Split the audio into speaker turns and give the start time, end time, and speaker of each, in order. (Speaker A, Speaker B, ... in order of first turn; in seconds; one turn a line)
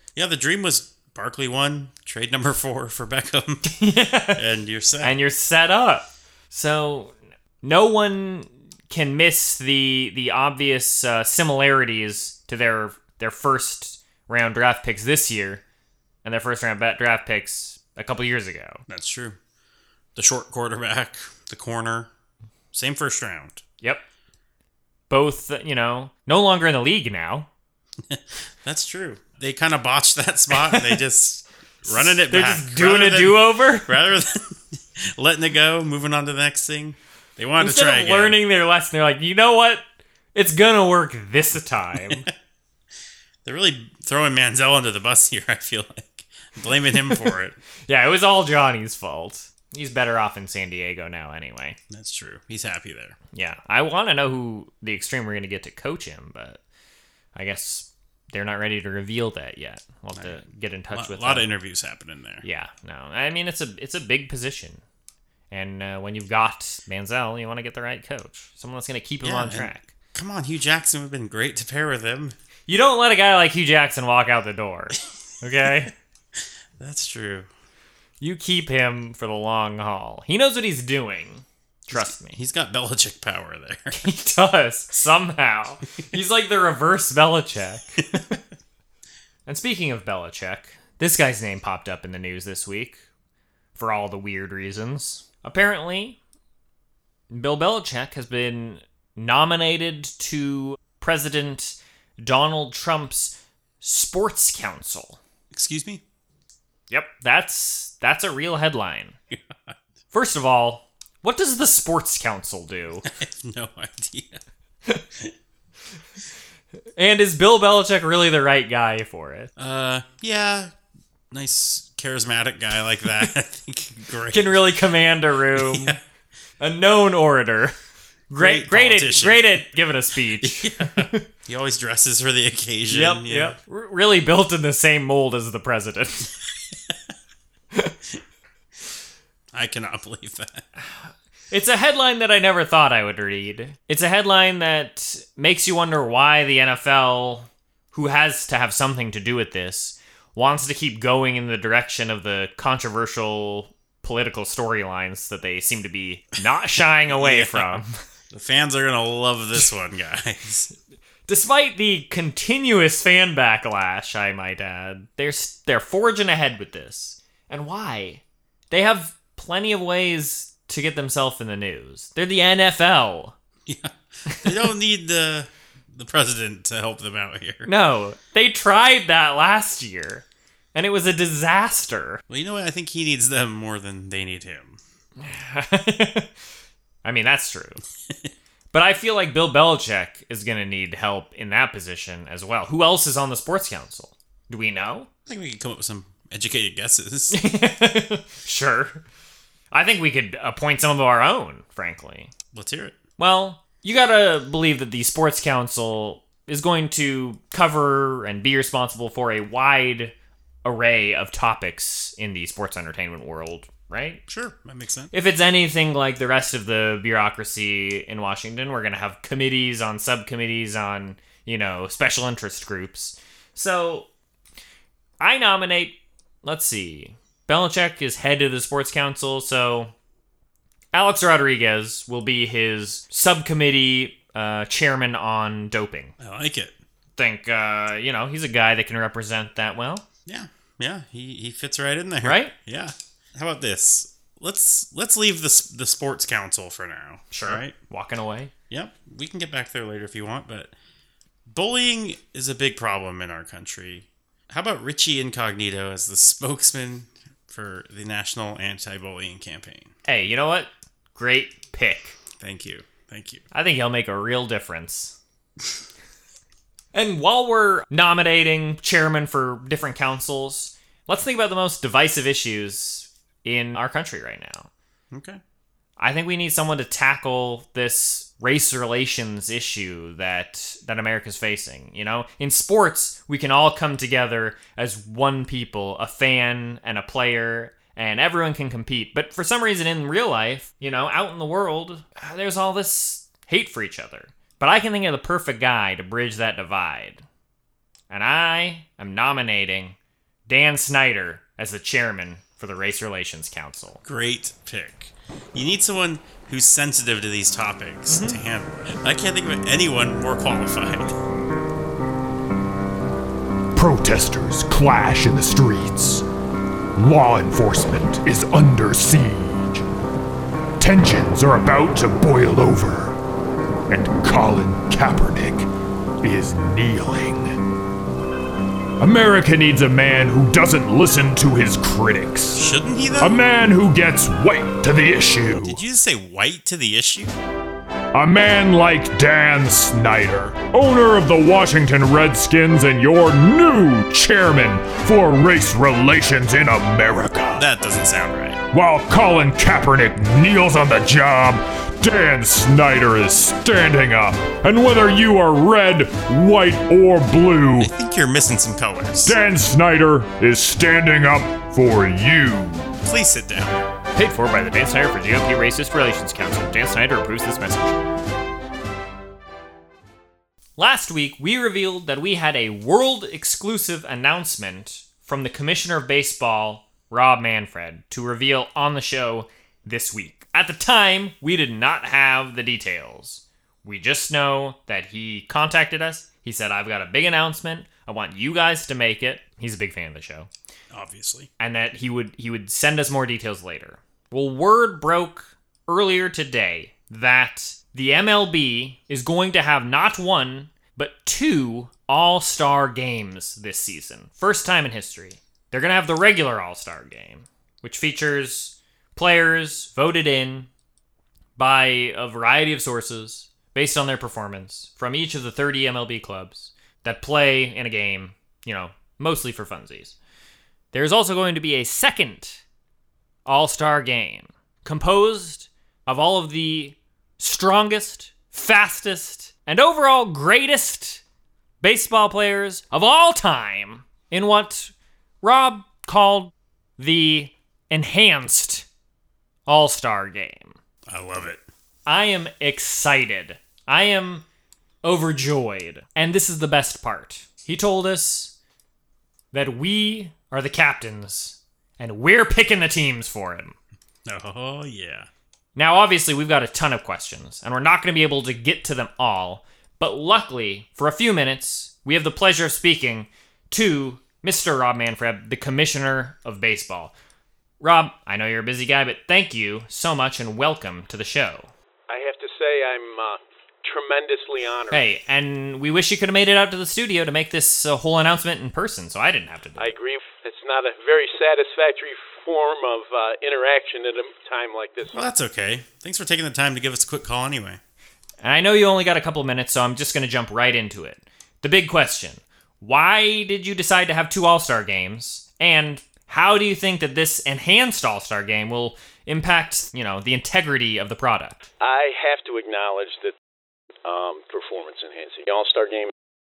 Speaker A: 0.1-3.7
Speaker B: 3.6-4.4
Speaker A: 4.3-5.2
Speaker B: 5.0-15.6
Speaker B: 16.2-18.8
Speaker A: 18.9-19.4
Speaker A: 20.1-22.1
Speaker A: 22.7-23.6
Speaker B: 25.1-27.5
Speaker A: 28.1-38.4
Speaker B: 30.5-31.0
Speaker B: 31.9-33.9
Speaker B: 37.6-42.3
Speaker A: 42.0-42.3
Speaker A: 43.4-47.6
Speaker B: 47.9-51.8
Speaker A: 51.9-53.2
Speaker B: 53.3-56.6
Speaker B: 57.4-61.5
Speaker A: 60.1-60.4
Speaker A: 60.9-62.5
Speaker B: 62.4-64.8
Speaker B: 65.5-69.9
Speaker A: 69.2-72.3
Speaker B: 72.7-75.9
Speaker A: 76.8-77.5
Speaker B: 78.2-82.4
Speaker A: 81.9-84.0
Speaker B: 83.9-88.4
Speaker B: 89.5-93.0
Speaker B: 93.8-96.2
Speaker B: 97.3-105.2
Speaker A: 105.5-106.0
Speaker B: 106.9-109.2
Speaker A: 109.3-109.8
Speaker B: 110.1-113.1
Speaker A: 113.1-114.4
Speaker B: 117.0-119.5
Speaker A: 119.6-120.7
Speaker A: 121.3-124.8
Speaker B: 124.3-126.0
Speaker A: 125.5-126.0
Speaker B: 126.6-127.8
Speaker B: 128.3-131.3
Speaker A: 128.3-129.7
Speaker A: 130.4-133.6
Speaker B: 132.9-136.3
Speaker A: 139.5-140.7
Speaker B: 141.5-158.0
Speaker A: 157.1-160.7
Speaker B: 161.3-173.3
Speaker A: 173.7-177.7
Speaker B: 174.3-174.7
Speaker B: 177.7-182.2
Speaker A: 182.3-184.8
Speaker B: 185.2-186.3
Speaker B: 187.0-187.8
Speaker B: 188.7-195.1
Speaker A: 195.3-197.4
Speaker B: 197.3-199.0
Speaker B: 199.7-202.3
Speaker A: 202.5-203.0
Speaker B: 203.2-210.1
Speaker B: 210.7-214.2
Speaker A: 214.3-215.1
Speaker B: 215.1-224.1
Speaker B: 225.2-229.9
Speaker B: 230.9-236.1
Speaker A: 236.2-236.8
Speaker B: 237.2-240.1
Speaker A: 240.3-247.8
Speaker B: 242.2-242.5
Speaker B: 247.3-248.5
Speaker A: 248.7-250.7
Speaker A: 251.5-259.9
Speaker B: 260.1-262.2
Speaker A: 262.4-263.4
Speaker B: 263.5-265.2
Speaker B: 266.9-274.7
Speaker A: 275.1-275.4
Speaker B: 276.0-297.2
Speaker B: 298.1-304.0
Speaker A: 304.1-311.1
Speaker B: 308.1-308.4
Speaker C: 313.8-316.2
Speaker C: 317.0-319.9
Speaker C: 320.8-323.2
Speaker C: 323.9-325.7
Speaker C: 326.2-327.6
Speaker C: 329.0-332.7
Speaker A: 332.5-333.4
Speaker C: 333.2-335.8
Speaker A: 335.5-337.4
Speaker C: 338.1-347.7
Speaker A: 347.6-348.6
Speaker C: 348.7-357.9
Speaker A: 357.8-359.4
Speaker C: 359.2-362.9
Speaker A: 363.0-363.8
Speaker B: 364.1-368.0
Speaker B: 370.8-390.5
Speaker A: 390.9-391.5
Speaker B: 391.6-410.7
Speaker B: 411.6-420.2
Speaker B: 420.9-422.6
Speaker B: 423.5-431.2
Speaker B: 431.8-438.9
Speaker B: 439.7-440.8
Speaker A: 441.1-441.6
Speaker B: 442.1-444.4
Speaker B: 445.0-448.5
Speaker B: 449.5-453.8
Speaker A: 454.2-455.3
Speaker B: 455.8-467.1
Speaker B: 467.8-471.7
Speaker D: 472.1-475.0
Speaker B: 474.9-479.9
Speaker D: 479.8-485.3
Speaker A: 485.1-487.8
Speaker B: 488.4-501.7
Speaker D: 501.8-503.4
Speaker D: 504.1-506.1